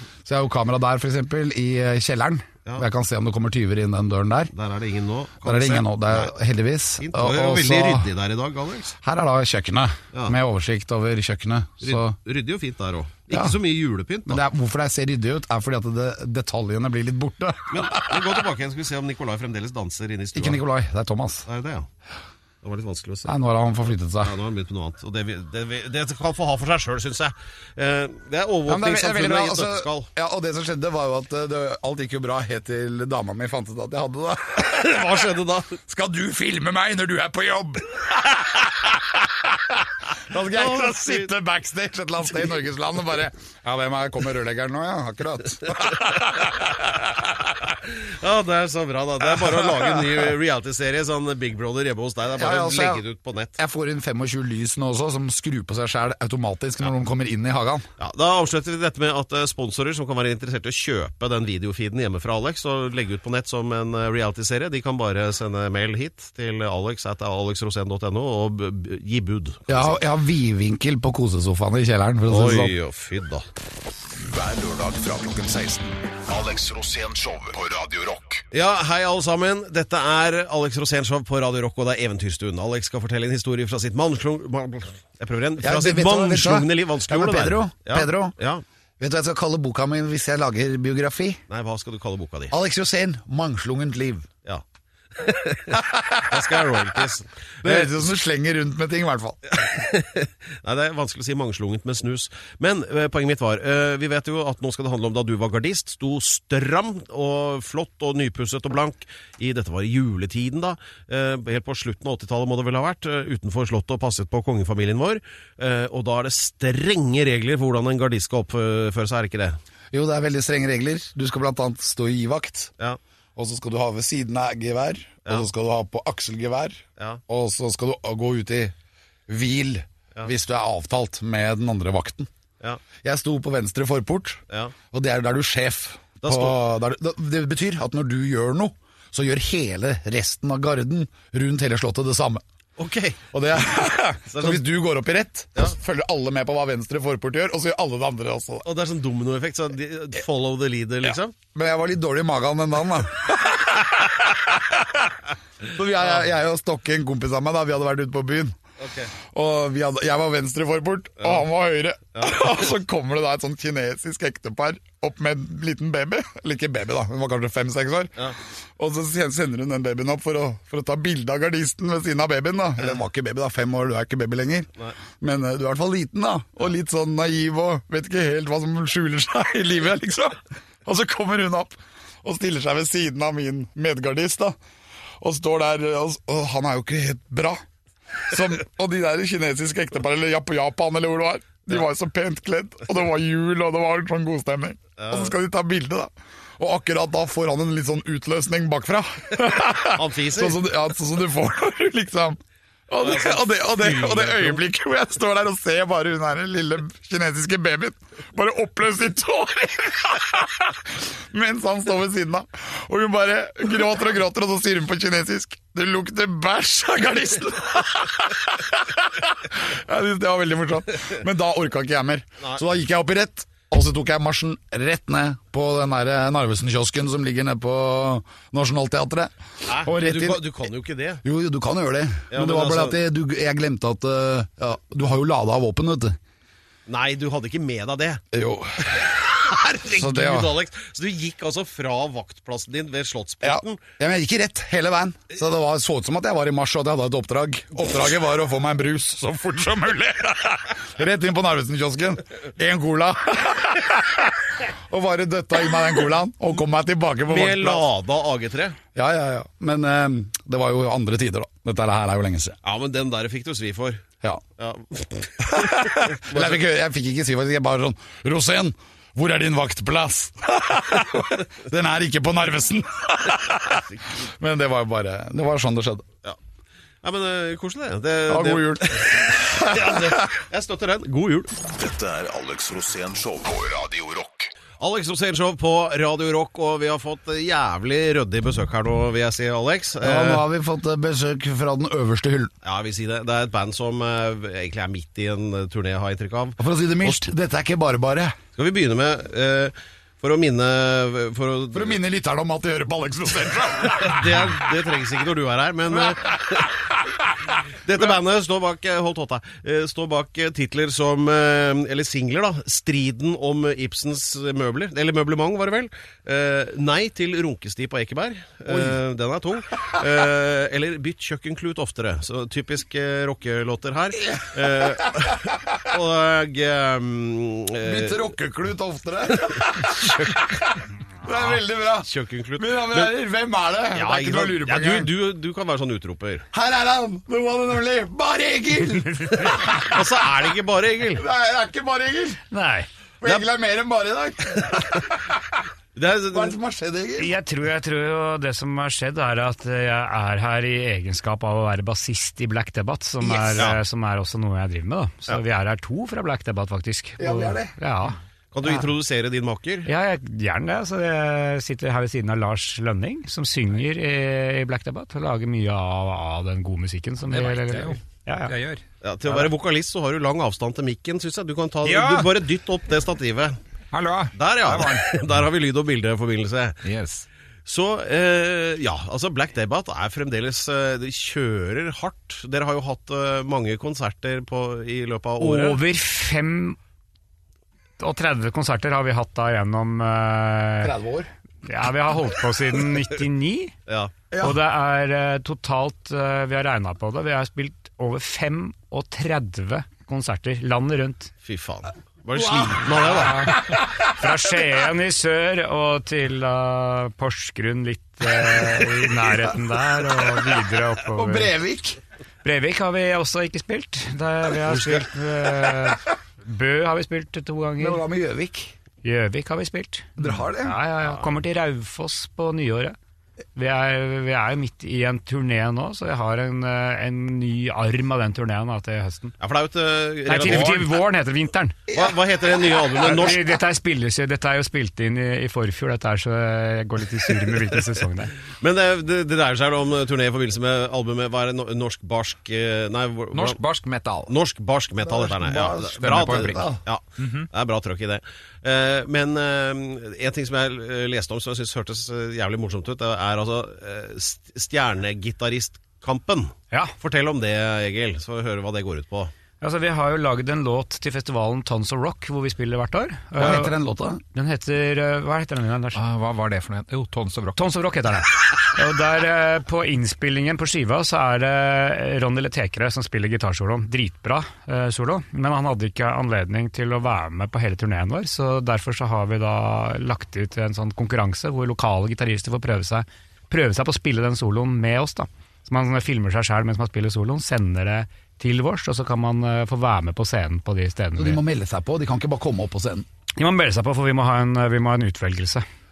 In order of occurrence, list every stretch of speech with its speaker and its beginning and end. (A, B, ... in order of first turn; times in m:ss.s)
0:00.2-0:04.5 A
0:04.5-0:06.3 B
0:05.4-0:08.1 A
0:07.0-0:09.0 B
0:09.0-0:12.2 A
0:11.8-0:14.4 B
0:13.3-0:13.6 A
0:14.3-0:18.4 A
0:17.7-0:20.6 B
0:20.3-0:21.4 A
0:21.5-0:21.9 B
0:22.6-0:23.3 B
0:23.2-0:24.3 A
0:24.2-0:30.1 B
0:28.7-0:35.2 A
0:34.6-0:35.8 B
0:35.9-0:47.6 A
0:40.5-0:41.3 B
0:46.0-0:46.6 B
0:47.7-0:53.6 B
0:49.2-0:50.3 A
0:52.4-0:53.0 A
0:53.6-0:57.9 A
0:58.0-1:10.0 B
1:09.7-1:12.7 A
1:12.3-1:13.4 B
1:14.1-1:18.4 C
1:18.5-1:28.6 B
1:25.6-1:28.4 A
1:29.0-1:31.4 A
1:31.5-1:32.5 B
1:32.5-1:34.3 A
1:35.2-1:38.0 B
1:35.7-1:36.5 A
1:37.6-1:39.4 A
1:39.5-1:59.6 B
1:59.9-2:02.7 A
2:03.4-2:08.7 A
2:09.3-2:12.3 A
2:13.0-2:22.4 A
2:16.2-2:16.6 B
2:22.8-2:23.2 B
2:23.3-2:28.6 A
2:24.3-2:24.6 B
2:28.6-2:31.3 B
2:31.0-2:38.6 A
2:38.8-2:39.1 B
2:39.2-3:04.6 A
2:42.1-2:42.5 B
3:05.2-3:07.6 A
3:08.3-3:50.4 A
3:15.0-3:15.3 B
3:19.9-3:20.6 B
3:23.0-3:24.6 B
3:49.6-3:51.2 B
3:51.2-3:56.2 A
3:52.3-3:53.0 B
3:56.9-3:58.2 B
3:58.3-3:59.2 A
3:59.0-4:03.8 B
3:59.8-4:00.5 A
4:03.4-4:17.8 A
4:17.3-4:18.8 B
4:18.9-4:22.6 A
4:22.6-4:24.0 B
4:24.6-4:26.6 B
4:25.4-4:36.0 A
4:37.0-4:41.5 B
4:38.3-4:40.3 A
4:41.7-4:44.5 C
4:44.8-4:50.4 B
4:50.0-4:52.5 A
4:52.6-4:57.2 B
4:56.6-4:58.4 A
4:58.6-5:02.0 B
5:01.7-5:04.5 A
5:03.9-5:06.9 B
5:06.0-5:06.8 A
5:07.8-5:28.3 B
5:18.7-5:19.0 A
5:24.2-5:25.7 A
5:27.8-5:35.1 A
5:29.9-5:30.4 B
5:31.4-5:33.1 B
5:33.9-5:36.4 B
5:36.5-5:40.1 A
5:39.2-5:39.5 D
5:39.5-5:41.2 B
5:41.2-5:42.4 A
5:42.5-5:42.9 D
5:43.2-5:45.6 A
5:45.9-5:46.6 B
5:46.3-5:47.3 A
5:47.2-5:58.9 D
5:53.2-5:53.7 A
5:57.2-5:57.7 A
5:58.5-5:59.9 B
5:59.8-6:08.5 D
6:07.3-6:08.8 E
6:09.0-6:13.6 B
6:11.8-6:12.3 E
6:13.9-6:15.2 E
6:14.3-6:16.8 B
6:16.8-6:17.2 E
6:17.6-6:25.8 B
6:25.4-6:26.8 D
6:28.0-6:30.9 D
6:30.8-6:31.3 A
6:31.6-6:33.7 D
6:33.9-6:34.1 B
6:34.3-6:34.6 A
6:34.4-6:41.3 D
6:41.4-6:43.6 B
6:42.3-6:44.1 A
6:43.0-6:51.5 D
6:51.1-6:52.0 A
6:52.4-6:58.0 D
6:57.8-6:58.7 A
6:59.0-7:03.0 D
7:00.2-7:00.8 A
7:03.6-7:09.3 D
7:09.4-7:10.8 B
7:10.3-7:11.8 D
7:10.4-7:10.9 E
7:11.9-7:13.0 A
7:11.9-7:13.5 B
7:13.0-7:18.4 D
7:18.5-7:23.6 B
7:23.3-7:24.3 E
7:24.3-7:39.3 B
7:25.0-7:26.8 A
7:26.0-7:27.5 E
7:39.6-7:43.7 D
7:43.4-7:44.2 A
7:44.3-7:46.0 D
7:45.9-7:47.6 E
7:47.6-8:11.4 D
8:11.2-8:13.0 A
8:13.4-8:15.6 D